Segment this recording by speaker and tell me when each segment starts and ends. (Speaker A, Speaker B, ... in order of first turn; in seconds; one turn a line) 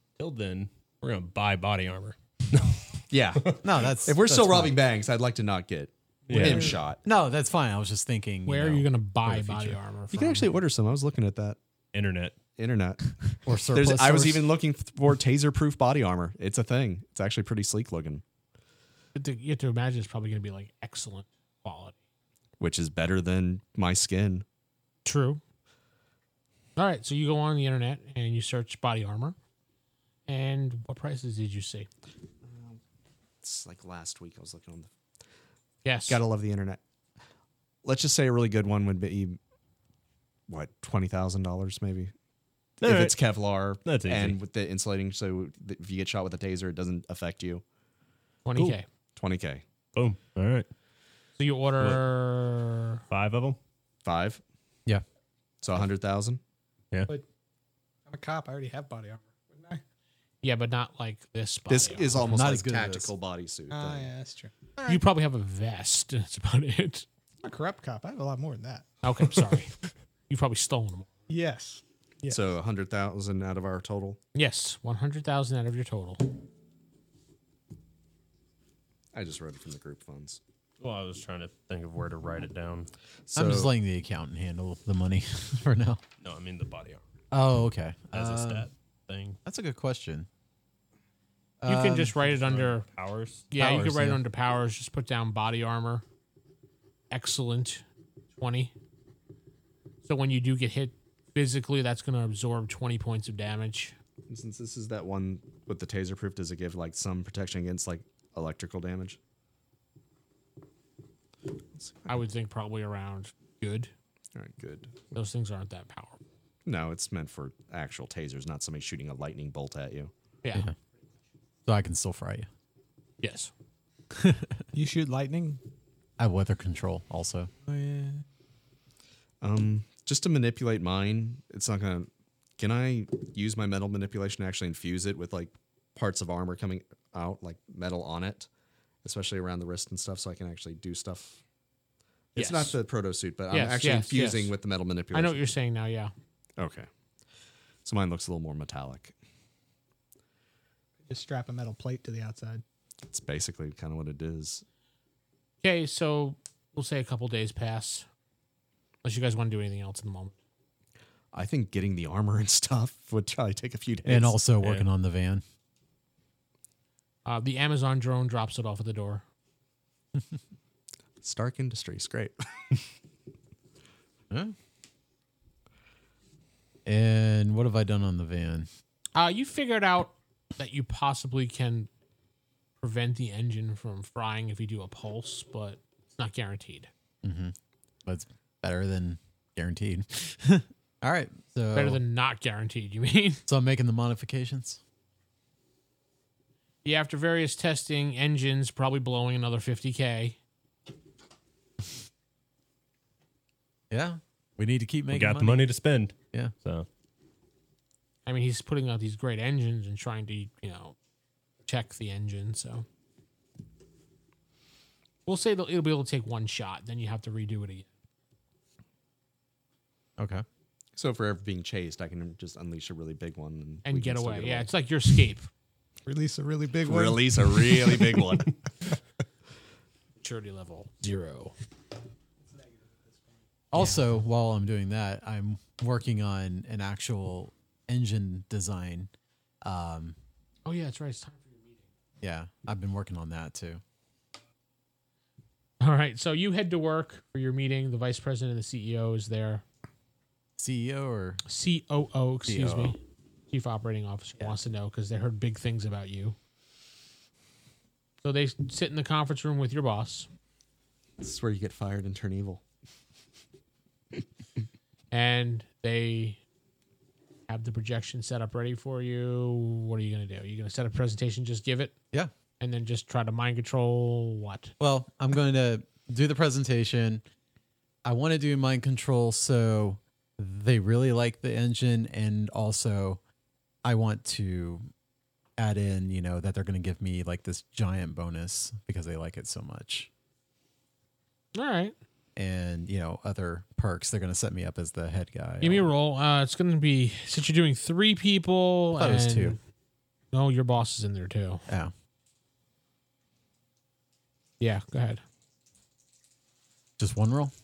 Speaker A: 0.2-2.8
Speaker B: 3.1-7.0
Speaker C: 3.6-4.8
Speaker A: 6.3-6.7
Speaker C: 7.0-9.8
Speaker D: 8.5-10.6
Speaker B: 10.1-11.6
Speaker A: 11.9-12.4
Speaker B: 12.6-18.2
Speaker C: 13.5-14.5
Speaker D: 19.1-22.0
Speaker B: 22.6-24.4
Speaker D: 25.1-25.4
Speaker D: 26.8-29.4
Speaker D: 30.3-31.9
Speaker B: 32.5-32.8
Speaker B: 33.4-34.9
Speaker D: 35.8-36.2
Speaker B: 36.1-36.8
Speaker B: 37.8-39.4
Speaker B: 40.5-42.1
Speaker A: 42.8-43.2
Speaker B: 42.9-47.6
Speaker A: 43.9-44.4
Speaker D: 48.5-48.9
Speaker B: 49.2-49.6
Speaker A: 50.0-50.7
Speaker D: 51.4-53.0
Speaker A: 53.1-53.6
Speaker B: 54.0-54.4
Speaker B: 55.6-56.4
Speaker E: 58.1-59.8
Speaker D: 60.4-62.2
Speaker B: 61.7-64.1
Speaker C: 62.2-63.1
Speaker E: 63.7-65.0
Speaker D: 64.9-67.1
Speaker E: 67.4-68.9
Speaker D: 69.0-69.7
Speaker D: 70.3-71.1
Speaker E: 71.3-72.5
Speaker B: 72.3-74.2
Speaker D: 74.3-76.3
Speaker B: 79.1-80.4
Speaker A: 80.8-82.9
Speaker B: 83.3-83.7
Speaker C: 83.3-86.0
Speaker A: 86.2-87.0
Speaker C: 87.3-88.7
Speaker A: 88.1-89.4
Speaker C: 89.4-90.3
Speaker C: 91.6-92.6
Speaker D: 91.7-92.9
Speaker A: 92.8-93.5
Speaker D: 93.5-96.0
Speaker C: 93.6-94.2
Speaker D: 97.1-97.8
Speaker D: 98.4-98.7
Speaker D: 100.0-104.0
Speaker B: 104.3-109.2
Speaker B: 111.8-112.1
Speaker D: 112.1-113.9
Speaker B: 114.3-115.1
Speaker D: 115.1-116.2
Speaker B: 116.7-120.1
Speaker D: 120.4-120.7
Speaker C: 121.7-122.5
Speaker D: 123.2-123.5
Speaker C: 124.1-124.7
Speaker E: 124.7-125.6
Speaker C: 126.2-127.5
Speaker E: 127.7-128.2
Speaker B: 129.4-138.5
Speaker B: 139.0-141.4
Speaker B: 142.3-145.6
Speaker D: 142.4-142.8
Speaker D: 143.5-144.6
Speaker D: 145.1-146.1
Speaker B: 146.6-146.9
Speaker B: 147.8-149.2
Speaker E: 151.1-152.6
Speaker B: 153.1-154.7
Speaker D: 155.6-158.1
Speaker D: 159.0-160.4
Speaker B: 161.3-164.4
Speaker C: 164.1-165.4
Speaker D: 167.2-169.2
Speaker B: 171.2-172.4
Speaker C: 174.3-174.6
Speaker C: 176.9-178.7
Speaker D: 179.2-181.9
Speaker D: 182.8-186.9
Speaker C: 187.2-192.0
Speaker D: 191.7-193.4
Speaker C: 193.5-194.8
Speaker D: 196.8-200.4
Speaker C: 203.9-205.7
Speaker A: 205.1-206.9
Speaker D: 208.3-211.0
Speaker D: 211.7-212.9
Speaker D: 215.3-217.9
Speaker C: 220.2-220.4
Speaker B: 221.0-224.7
Speaker D: 223.8-225.5
Speaker E: 226.1-228.0
Speaker B: 226.8-228.6
Speaker D: 230.2-231.5
Speaker E: 232.5-233.1
Speaker C: 233.7-239.1
Speaker D: 233.8-234.1
Speaker C: 239.6-240.2
Speaker D: 240.7-241.9
Speaker C: 242.2-243.8
Speaker D: 245.8-249.6
Speaker C: 250.6-251.4
Speaker D: 251.5-253.0
Speaker C: 252.5-252.9
Speaker D: 253.5-256.4
Speaker D: 258.2-260.3
Speaker B: 261.2-262.6
Speaker D: 265.1-266.4
Speaker D: 267.5-271.9
Speaker D: 272.6-274.7
Speaker C: 274.8-277.2
Speaker C: 278.1-283.2
Speaker C: 283.8-284.9
Speaker C: 285.6-290.1
Speaker D: 291.6-291.9
Speaker C: 292.4-295.9
Speaker D: 295.6-299.6
Speaker C: 299.0-299.6
Speaker D: 300.3-301.6
Speaker C: 301.7-301.9
Speaker D: 304.6-305.2
Speaker C: 307.0-307.5